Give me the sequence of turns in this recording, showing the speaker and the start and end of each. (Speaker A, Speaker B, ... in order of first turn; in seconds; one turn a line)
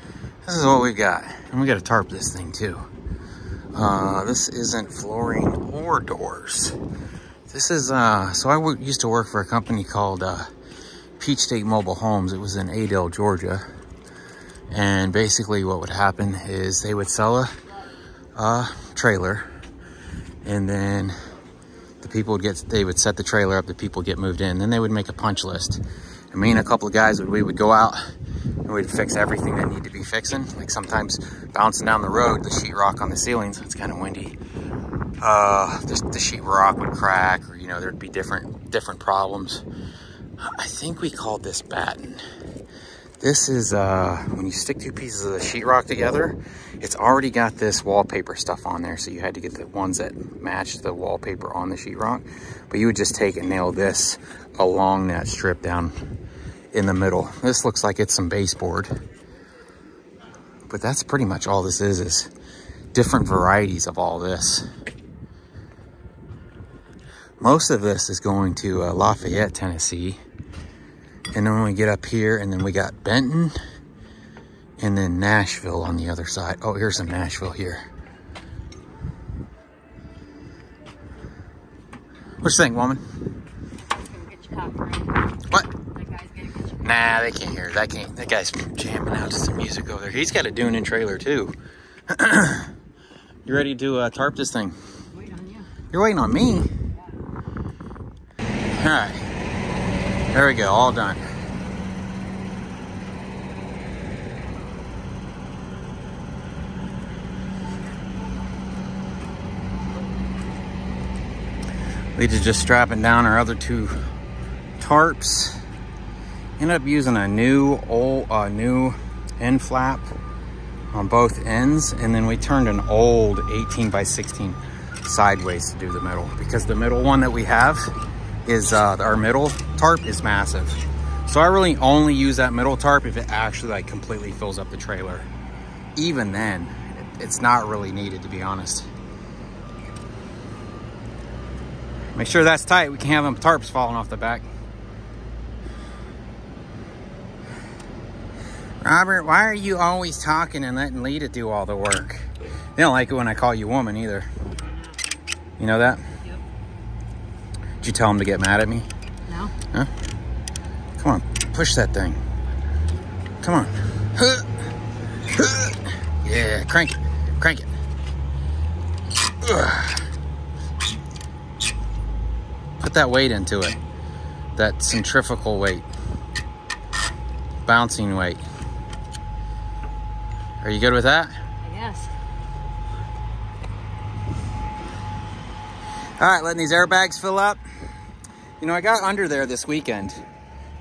Speaker A: 0.5-2.8
Speaker A: 3.7-6.8
Speaker A: 7.5-10.5
Speaker A: 11.2-13.6
Speaker A: 14.7-17.5
Speaker A: 18.4-19.5
Speaker A: 20.4-21.1
Speaker A: 22.0-25.8
Speaker A: 26.3-28.0
Speaker A: 28.6-34.4
Speaker A: 35.2-39.6
Speaker A: 40.4-42.2
Speaker A: 43.2-55.9
Speaker A: 56.7-58.9
Speaker A: 60.7-62.3
Speaker A: 62.9-64.7
Speaker A: 67.4-70.2
Speaker A: 71.3-73.6
Speaker A: 74.8-77.8
Speaker A: 82.4-83.0
Speaker B: 83.9-85.3
Speaker B: 85.8-87.0
Speaker A: 86.8-91.5
Speaker A: 92.1-92.7
Speaker A: 93.5-94.8
Speaker B: 95.1-95.7
Speaker A: 95.9-96.7
Speaker B: 96.9-97.2
Speaker A: 98.8-99.2
Speaker A: 100.3-101.2
Speaker A: 112.2-114.0
Speaker A: 114.8-115.6
Speaker A: 116.6-120.1
Speaker A: 120.9-127.9
Speaker A: 128.5-135.3
Speaker A: 136.0-138.9
Speaker A: 142.2-144.5
Speaker A: 148.8-154.3
Speaker B: 154.6-155.0
Speaker A: 155.6-156.0
Speaker A: 157.8-158.9
Speaker B: 159.3-159.5
Speaker A: 161.0-162.2
Speaker A: 163.4-164.5
Speaker A: 165.3-167.7
Speaker A: 169.4-170.0
Speaker A: 172.8-173.8
Speaker A: 174.6-175.9
Speaker A: 177.7-178.4
Speaker A: 180.6-181.4
Speaker B: 181.6-182.1
Speaker A: 186.2-187.6
Speaker A: 188.6-190.2